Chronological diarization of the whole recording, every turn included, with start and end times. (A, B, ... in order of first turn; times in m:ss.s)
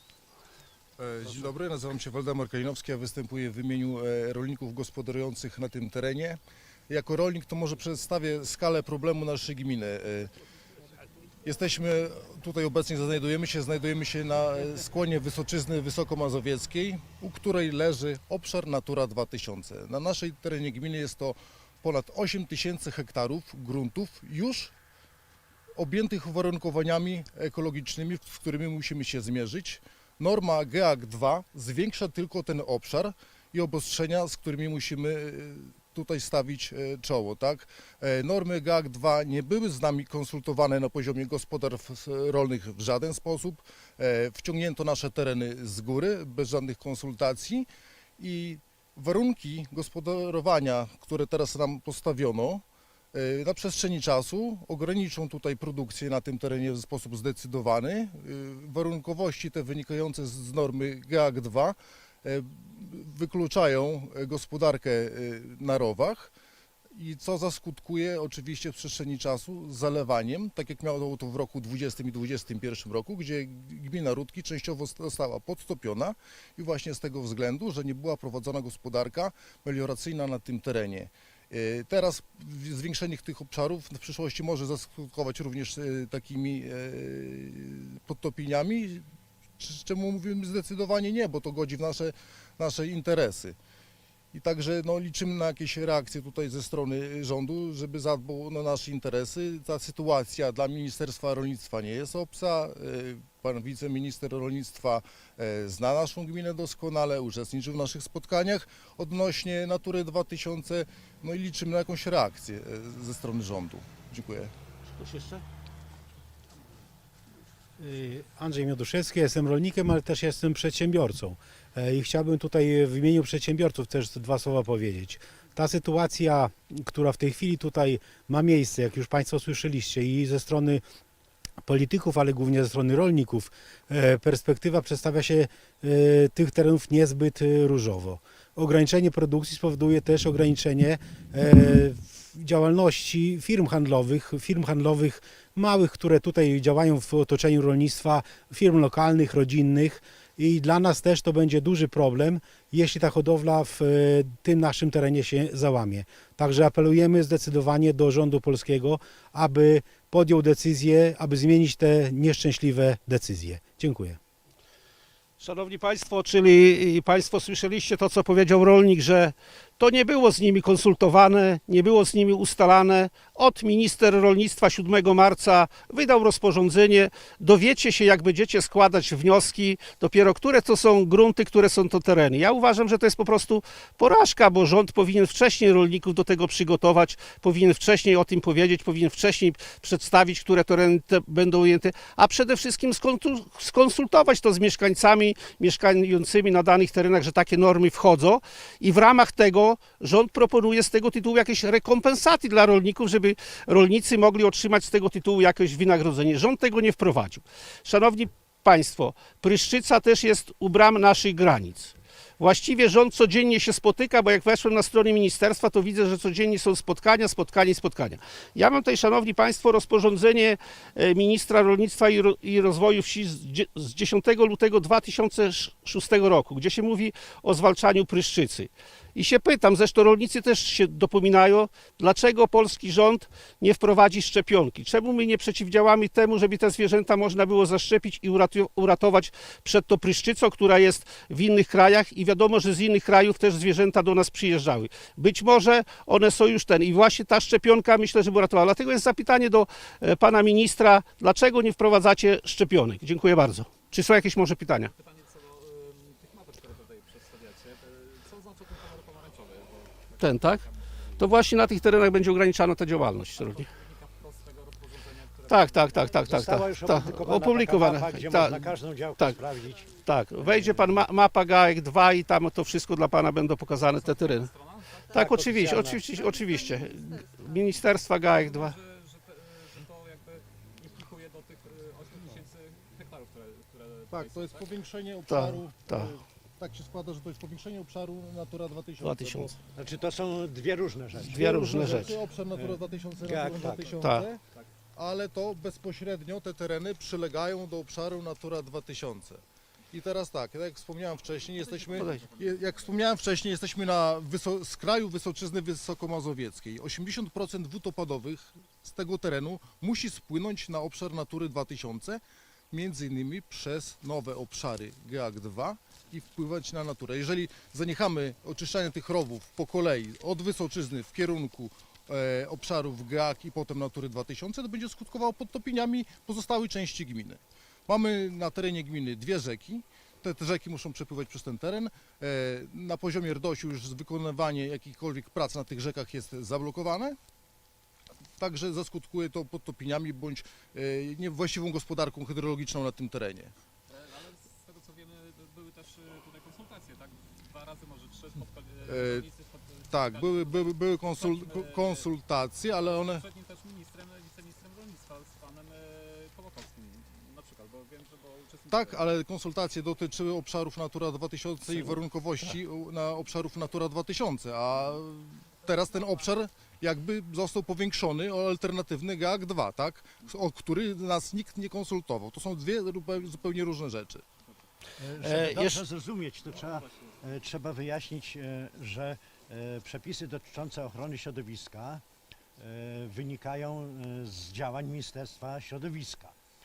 0:01.0-0:10.3 A
0:11.4-0:24.7 A
0:25.8-0:47.7 A
0:48.2-1:06.3 A
1:07.0-1:29.0 A
1:29.6-1:33.6 A
1:34.3-1:54.5 A
1:54.9-1:55.4 B
1:57.8-2:10.8 C
2:11.6-2:44.2 C
2:45.4-4:14.9 B
4:14.9-4:21.6 D
4:20.2-4:20.6 B
4:21.2-4:23.7 B
4:23.3-4:26.1 D
4:25.5-4:29.4 B
4:26.3-4:29.8 E
4:30.0-4:34.5 B
4:33.9-4:35.8 D
4:35.1-4:38.8 B
4:35.4-4:36.0 E
4:38.4-4:44.8 D
4:44.1-4:49.5 A
4:45.3-4:46.1 B
4:49.0-4:49.6 B
4:49.7-4:51.8 E
4:51.3-4:52.2 B
4:51.3-4:54.4 A
4:52.5-4:53.9 E
4:54.0-4:54.3 B
4:54.9-4:59.4 A
4:59.9-5:37.2 A
5:01.3-5:03.4 D
5:02.0-5:02.2 B
5:38.4-5:43.5 A
5:43.9-5:52.1 D
5:48.8-5:49.3 A
5:49.9-5:53.2 A
5:52.8-5:59.1 D
5:58.7-6:14.2 A
6:15.0-6:22.0 E
6:15.2-6:15.8 B
6:22.6-6:26.3 E